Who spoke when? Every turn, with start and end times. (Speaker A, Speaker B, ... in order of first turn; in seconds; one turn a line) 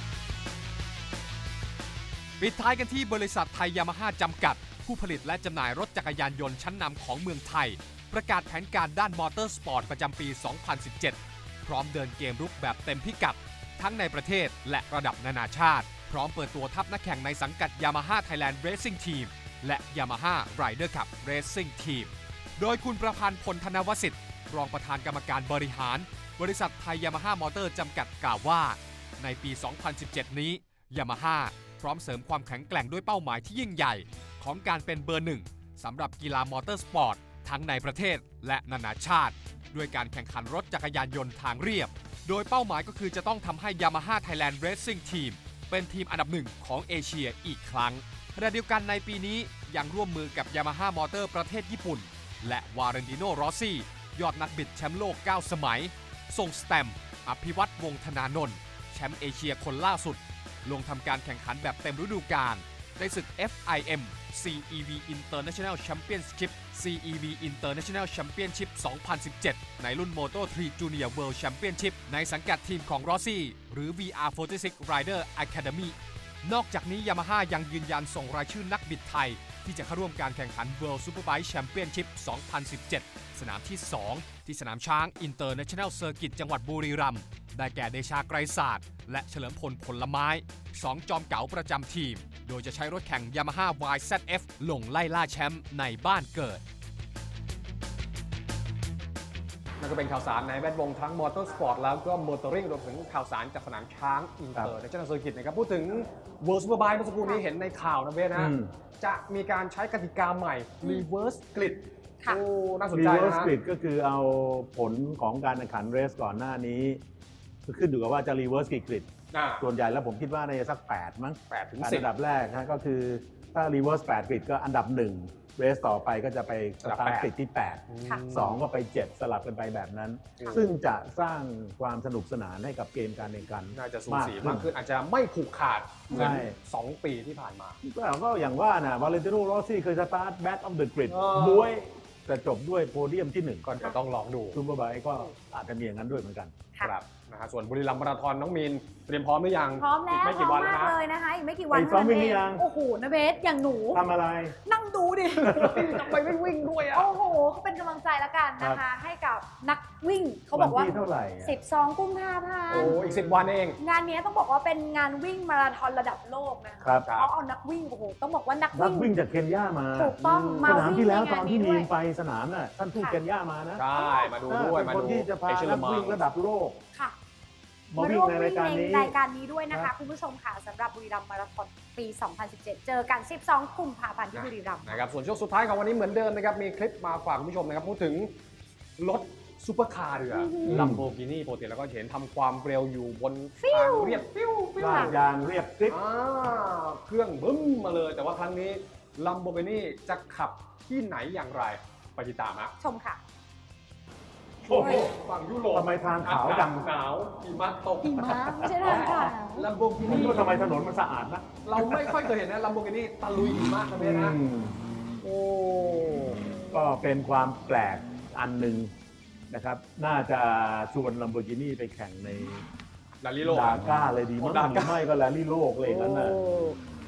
Speaker A: 2.4-96.6
Speaker B: 99.8-113.5
Speaker C: 108.3-108.7
Speaker C: 112.9-117.0
Speaker C: 117.7-119.1
Speaker B: 119.3-119.7
Speaker C: 119.6-134.7
Speaker B: 121.5-122.1
Speaker B: 126.8-127.3
Speaker B: 127.9-128.6
Speaker B: 133.7-137.8
Speaker C: 136.1-136.6
Speaker C: 137.8-143.7
Speaker B: 141.1-141.7
Speaker B: 143.7-144.6
Speaker C: 144.5-146.5
Speaker B: 146.8-151.0
Speaker D: 149.8-154.0
Speaker C: 151.7-152.7
Speaker C: 153.9-154.6
Speaker D: 154.7-155.6
Speaker B: 155.3-157.2
Speaker C: 155.5-156.3
Speaker D: 156.9-160.9
Speaker C: 160.5-161.6
Speaker D: 161.4-163.0
Speaker B: 162.7-163.8
Speaker C: 162.8-163.4
Speaker D: 163.8-169.1
Speaker C: 166.8-167.1
Speaker B: 167.0-167.3
Speaker C: 168.7-173.9
Speaker D: 169.9-171.9
Speaker B: 170.2-170.9
Speaker D: 172.9-173.2
Speaker B: 173.8-176.2
Speaker D: 174.0-174.3
Speaker C: 174.5-176.8
Speaker C: 177.9-179.2
Speaker D: 178.0-185.0
Speaker B: 184.3-188.3
Speaker B: 189.0-195.2
Speaker D: 190.3-190.8
Speaker C: 190.7-191.1
Speaker D: 193.6-194.2
Speaker C: 194.8-196.0
Speaker D: 194.8-195.1
Speaker B: 195.9-202.7
Speaker D: 202.8-203.2
Speaker C: 204.7-205.1
Speaker D: 204.7-205.1
Speaker B: 204.7-210.5
Speaker C: 205.7-206.9
Speaker D: 208.0-209.7
Speaker C: 210.1-212.3
Speaker B: 211.6-214.4
Speaker C: 214.0-214.8
Speaker B: 215.2-216.4
Speaker C: 216.7-218.9
Speaker C: 219.5-222.7
Speaker B: 223.2-225.1
Speaker C: 223.4-226.4
Speaker D: 225.9-226.8